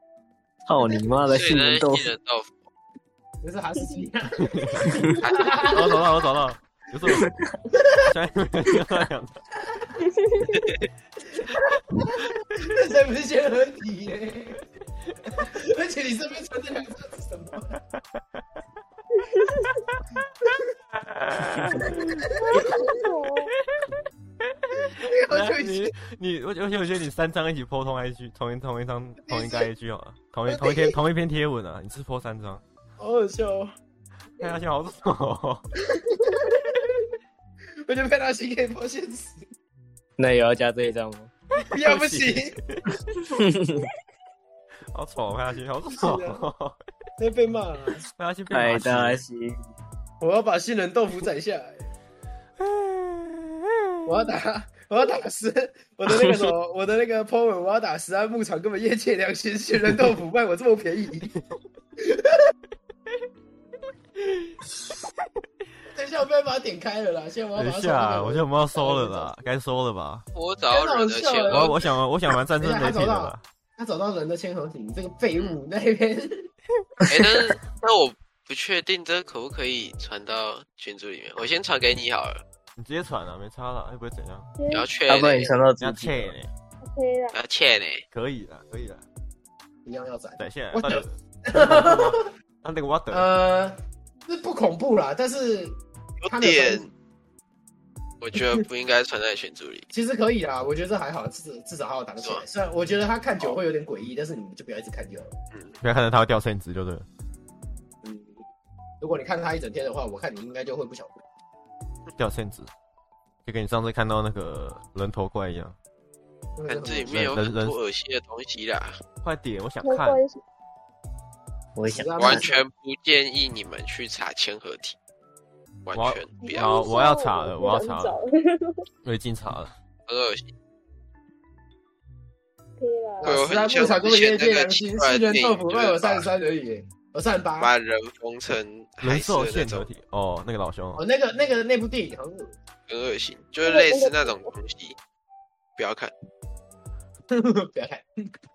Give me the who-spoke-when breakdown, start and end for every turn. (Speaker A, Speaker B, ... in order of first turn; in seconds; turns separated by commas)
Speaker A: 0.7-2.1, Speaker B: 1.3-2.6, Speaker C: 3.4-6.1, Speaker D: 4.5-4.9, Speaker E: 4.8-5.1, Speaker B: 5.2-5.6, Speaker D: 5.7-7.3, Speaker A: 7.2-7.5, Speaker C: 7.7-8.1, Speaker D: 8.1-9.4, Speaker C: 9.7-10.1, Speaker E: 10.1-10.7, Speaker B: 10.5-10.9, Speaker C: 11.4-14.6, Speaker C: 15.2-17.8, Speaker E: 19.1-19.8, Speaker D: 20.9-22.7, Speaker C: 22.3-23.0, Speaker E: 22.5-23.5, Speaker D: 24.5-32.6, Speaker C: 24.9-25.9, Speaker C: 29.2-29.7, Speaker C: 30.5-31.0, Speaker C: 33.0-33.7, Speaker D: 34.4-35.7, Speaker C: 35.9-37.0, Speaker C: 37.8-39.5, Speaker A: 40.2-41.3, Speaker C: 41.7-42.6, Speaker D: 41.8-42.9, Speaker A: 43.3-43.9, Speaker D: 44.9-46.8, Speaker C: 45.9-46.4, Speaker C: 47.2-48.0, Speaker D: 48.2-49.2, Speaker A: 48.5-49.6, Speaker C: 50.2-51.8, Speaker D: 52.6-54.1, Speaker C: 54.1-61.3, Speaker C: 62.0-62.5, Speaker C: 65.9-69.3, Speaker D: 67.6-70.3, Speaker B: 70.3-71.8, Speaker C: 70.7-71.9, Speaker D: 71.5-73.4, Speaker C: 72.6-76.5, Speaker B: 77.1-82.4, Speaker D: 82.8-84.5, Speaker E: 84.6-84.9, Speaker B: 84.7-85.5, Speaker A: 85.1-86.3, Speaker D: 85.8-86.5, Speaker E: 86.9-87.4, Speaker B: 87.3-88.0, Speaker D: 88.1-89.0, Speaker C: 89.8-92.2, Speaker D: 90.4-93.3, Speaker C: 93.1-95.8, Speaker B: 96.2-96.9, Speaker C: 96.3-96.8, Speaker B: 98.2-99.9, Speaker C: 99.9-105.4, Speaker D: 105.8-107.1, Speaker C: 108.0-108.4, Speaker C: 109.0-111.2, Speaker D: 112.2-112.7, Speaker D: 113.5-115.8, Speaker C: 116.6-117.3, Speaker B: 116.7-119.0, Speaker D: 117.1-117.8, Speaker D: 119.2-120.2, Speaker E: 119.8-120.4, Speaker A: 121.8-122.5, Speaker C: 121.9-122.6, Speaker B: 122.2-125.0, Speaker B: 125.9-126.8, Speaker D: 126.0-128.2, Speaker E: 126.4-128.8, Speaker D: 129.0-129.7, Speaker B: 130.1-130.5, Speaker E: 132.8-133.4, Speaker C: 133.2-137.7, Speaker B: 133.2-136.3, Speaker B: 137.6-139.9, Speaker D: 139.0-141.0, Speaker C: 141.0-142.6, Speaker B: 142.9-145.0, Speaker E: 143.6-144.5, Speaker B: 145.8-146.1, Speaker C: 147.3-148.1